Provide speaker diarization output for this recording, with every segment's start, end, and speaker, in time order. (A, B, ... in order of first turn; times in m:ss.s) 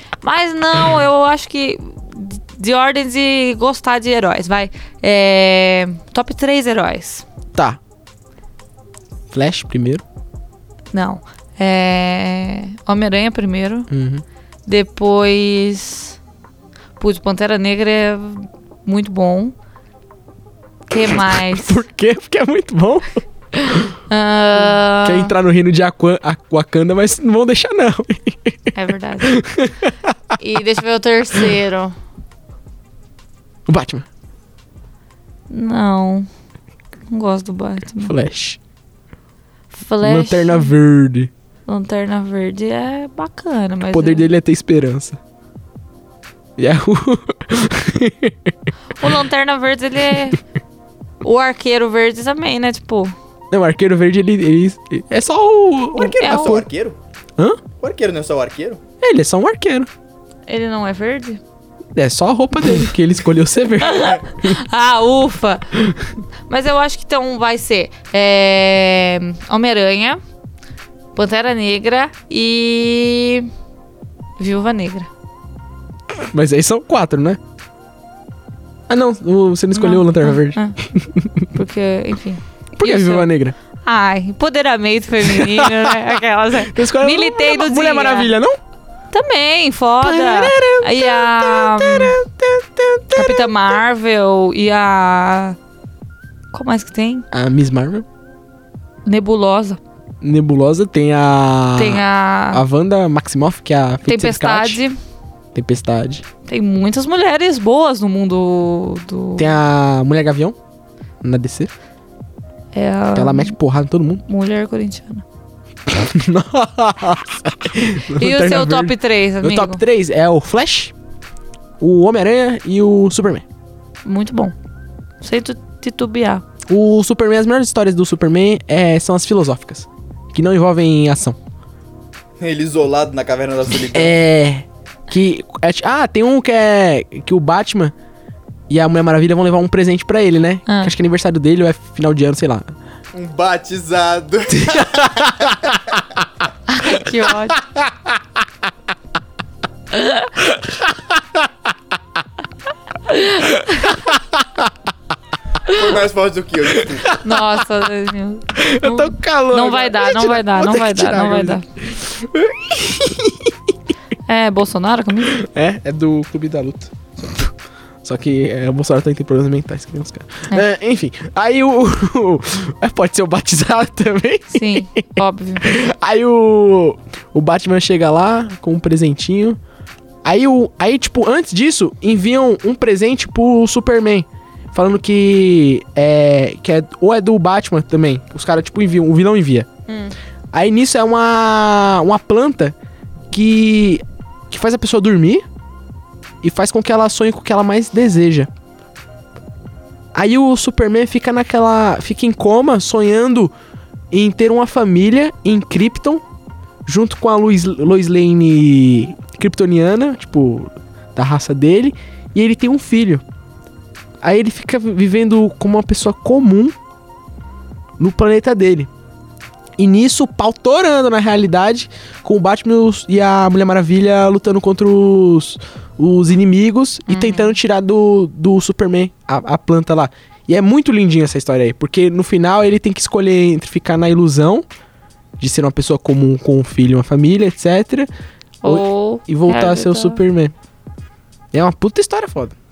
0:00.2-0:07.2 A
0:07.6-0:07.8 B
0:09.3-0:10.0 B
0:10.9-0:13.9 A
0:13.9-0:14.2 B
0:14.7-0:16.2 A
0:17.0-0:19.6 A
0:20.9-0:21.8 A
0:21.1-0:23.9 B
0:24.1-0:25.4 A
0:25.0-0:28.7 B
0:28.7-0:29.4 A
0:29.2-0:30.4 B
0:30.4-0:32.0 A
0:33.7-0:34.1 B
0:35.5-0:36.3 A
0:37.1-0:38.1 A
0:38.0-0:38.6 B
0:39.7-0:40.7 A
0:40.0-0:41.3 B
0:41.7-0:44.3 A
0:43.9-0:45.2 B
0:46.6-0:48.5 B
0:49.0-0:50.4 A
0:51.2-0:53.1 A
0:53.5-0:56.7 B
0:55.9-0:57.0 C
0:56.2-0:56.6 A
0:57.8-0:58.8 C
0:59.0-0:59.9 B
1:00.5-1:01.4 A
1:02.0-1:04.6 B
1:03.8-1:05.8 A
1:05.8-1:06.0 B
1:06.5-1:10.2 A
1:11.2-1:13.5 A
1:14.4-1:15.1 A
1:16.2-1:17.4 B
1:18.9-1:21.5 B
1:19.7-1:20.8 A
1:21.5-1:23.3 A
1:22.8-1:23.6 B
1:23.8-1:28.3 A
1:25.2-1:28.6 B
1:29.1-1:32.2 A
1:30.0-1:33.7 B
1:33.1-1:35.6 A
1:36.5-1:37.3 A
1:37.3-1:38.1 B
1:39.1-1:39.8 A
1:40.2-1:44.8 B
1:41.8-1:42.6 A
1:44.1-1:45.0 A
1:45.5-1:46.2 B
1:46.5-1:49.5 A
1:49.4-1:50.6 B
1:51.2-1:51.7 B
1:52.7-1:53.6 A
1:53.2-1:54.2 B
1:54.3-1:55.2 A
1:55.9-2:00.9 B
1:58.1-1:59.8 A
2:01.8-2:03.4 B
2:04.0-2:04.6 A
2:05.2-2:06.4 A
2:06.7-2:11.4 B
2:12.4-2:14.2 C
2:13.8-2:17.9 B
2:18.7-2:22.7 B
2:20.7-2:20.9 A
2:23.1-2:25.8 C
2:24.5-2:25.8 B
2:26.7-2:27.6 A
2:29.9-2:30.4 A
2:30.4-2:31.5 B
2:33.1-2:34.0 A
2:33.6-2:34.7 B
2:35.6-2:37.2 C
2:36.7-2:37.6 B
2:37.2-2:41.6 A
2:38.6-2:43.6 B
2:44.3-2:45.4 A
2:45.3-2:47.5 B
2:48.0-2:59.6 B
2:54.5-2:55.7 A
3:00.2-3:09.7 B
3:09.9-3:10.1 A
3:10.5-3:12.8 B
3:13.3-3:15.4 B
3:16.4-3:18.5 B
3:20.1-3:23.5 B
3:24.1-3:26.2 B
3:26.9-3:33.2 B
3:34.2-3:36.8 B
3:38.0-3:38.9 B
3:39.8-3:54.6 B
3:47.1-3:47.6 A
3:55.4-3:58.1 B
3:58.6-4:00.2 A
3:58.6-4:00.5 B
4:01.5-4:02.6 B